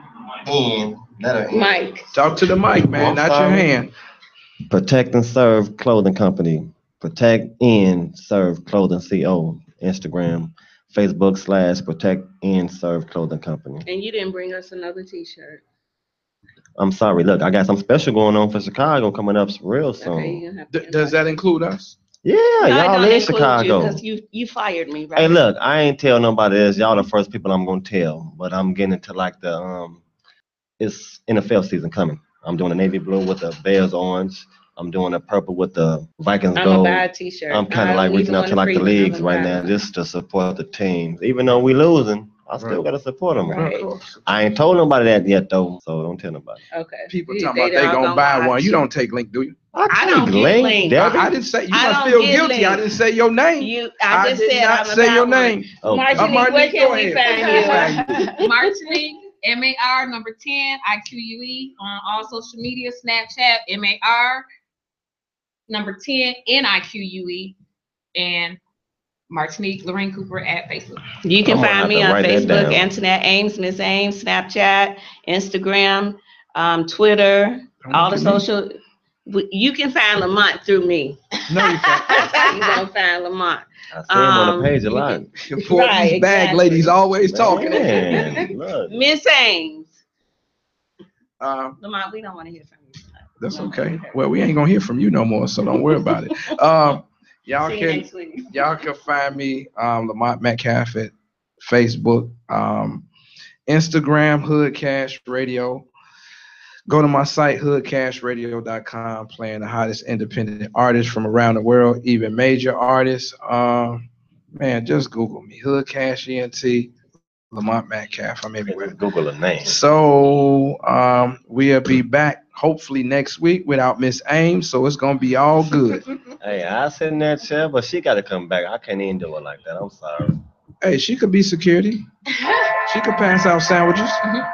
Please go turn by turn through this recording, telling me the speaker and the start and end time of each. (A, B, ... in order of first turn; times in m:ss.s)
0:00.4-0:03.7 A
0:01.5-0:02.1 B
0:02.1-0:03.9 C
0:04.7-0:13.8 A
0:13.8-0:15.6 B
0:16.8-0:20.4 A
0:20.0-0:21.2 B
0:20.7-0:22.0 C
0:22.2-0:24.0 A
0:22.6-0:25.4 B
0:25.2-0:30.0 A
0:30.8-0:43.8 A
0:36.6-0:39.7 B
0:43.5-0:43.9 B
0:43.5-0:44.4 C
0:44.3-0:46.6 A
0:46.7-0:48.8 B
0:47.1-0:49.6 C
0:49.7-0:51.3 A
0:49.9-0:52.9 B
0:51.0-0:58.4 C
0:53.6-0:58.0 B
0:55.8-0:56.4 A
0:57.3-1:04.5 D
1:05.7-1:07.6 D
1:08.2-1:08.6 D
1:09.3-1:11.0 D
1:11.2-1:18.7 B
1:11.4-1:12.9 A
1:17.8-1:18.4 C
1:19.3-1:21.2 B
1:21.5-1:22.5 C
1:22.2-1:27.0 B
1:23.9-1:25.3 A
1:25.4-1:28.4 C
1:27.2-1:29.0 A
1:28.9-1:30.0 B
1:31.4-1:31.8 C
1:31.8-1:34.2 B
1:33.4-1:43.0 C
1:37.6-1:38.5 B
1:43.7-1:45.9 C
1:46.9-1:56.9 C
1:57.5-1:59.0 C
1:58.6-1:59.8 A
1:59.6-2:06.0 C
2:06.4-2:10.4 A
2:10.8-2:12.0 C
2:12.9-2:14.2 C